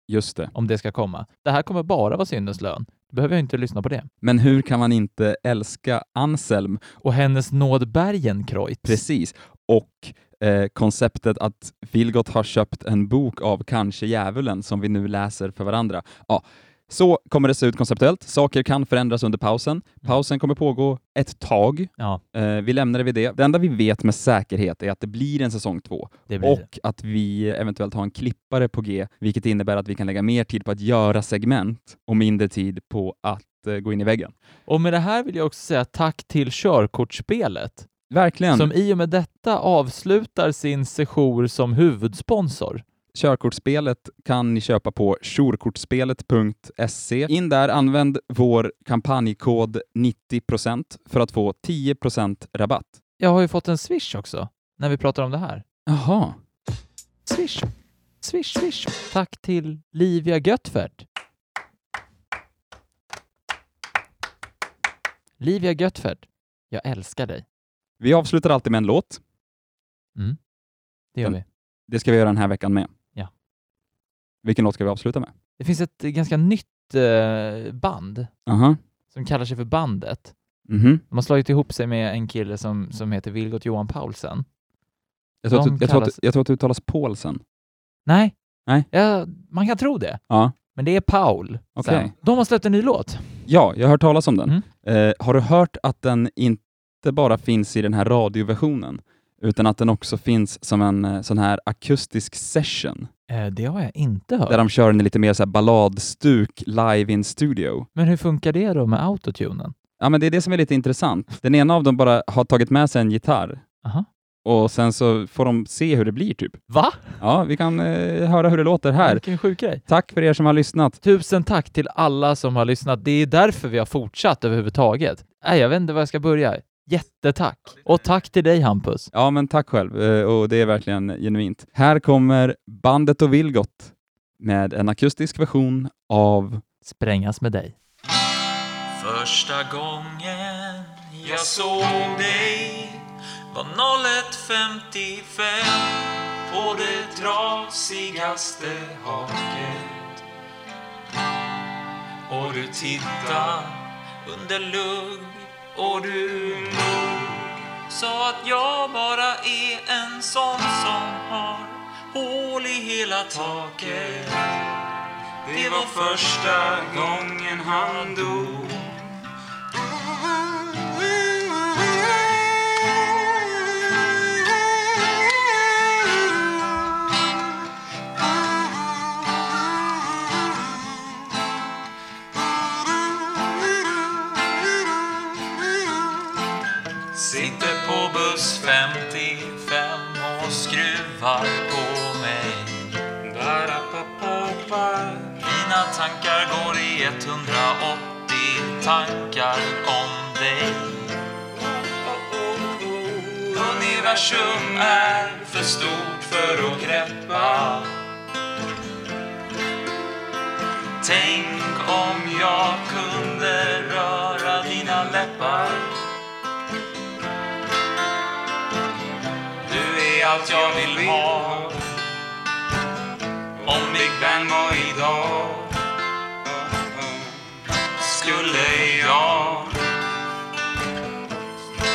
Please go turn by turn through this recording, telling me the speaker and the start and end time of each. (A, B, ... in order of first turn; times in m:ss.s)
0:00.1-0:00.5 A
0:00.5-0:04.1 B
0:04.2-0:06.9 A
0:07.0-0:09.0 B
0:08.8-0:34.3 A
0:26.3-0:26.6 B
0:34.7-0:37.9 B
0:38.1-0:38.7 A
0:38.5-0:42.8 B
0:43.1-0:53.0 A
0:53.2-0:55.6 B
0:55.9-0:56.4 A
0:57.3-0:57.7 B
0:58.2-1:01.0 B
1:05.4-1:07.4 B
1:08.0-1:09.2 A
1:11.1-1:11.4 B
1:11.9-1:12.9 A
1:14.4-1:15.3 A
1:15.6-1:18.3 B
1:18.4-1:18.8 A
1:19.1-1:20.3 B
1:20.7-1:21.0 A
1:21.1-1:24.4 B
1:25.4-1:27.4 A
1:25.5-1:26.2 B
1:28.1-1:28.3 B
1:28.9-1:30.2 B
1:30.3-1:30.6 A
1:30.7-1:33.4 B
1:31.8-1:32.1 A
1:33.4-1:43.1 A
1:43.3-1:44.6 B
1:44.5-1:47.9 A
1:48.0-1:49.7 B
1:50.0-1:53.6 A
1:54.4-1:56.6 A
1:56.7-1:57.2 B
1:57.2-1:59.2 A
1:59.0-1:59.8 B
1:59.8-2:01.0 A
2:01.0-2:09.1 B
2:09.1-2:16.6 A
2:16.8-2:17.7 B
2:19.0-2:30.2 C
2:32.3-2:44.6 C
2:45.4-2:49.1 C
3:07.1-3:27.9 C
3:31.0-3:36.0 C
3:39.6-3:41.9 C
3:43.6-3:45.7 C
3:46.7-3:47.4 C
3:48.0-3:49.8 C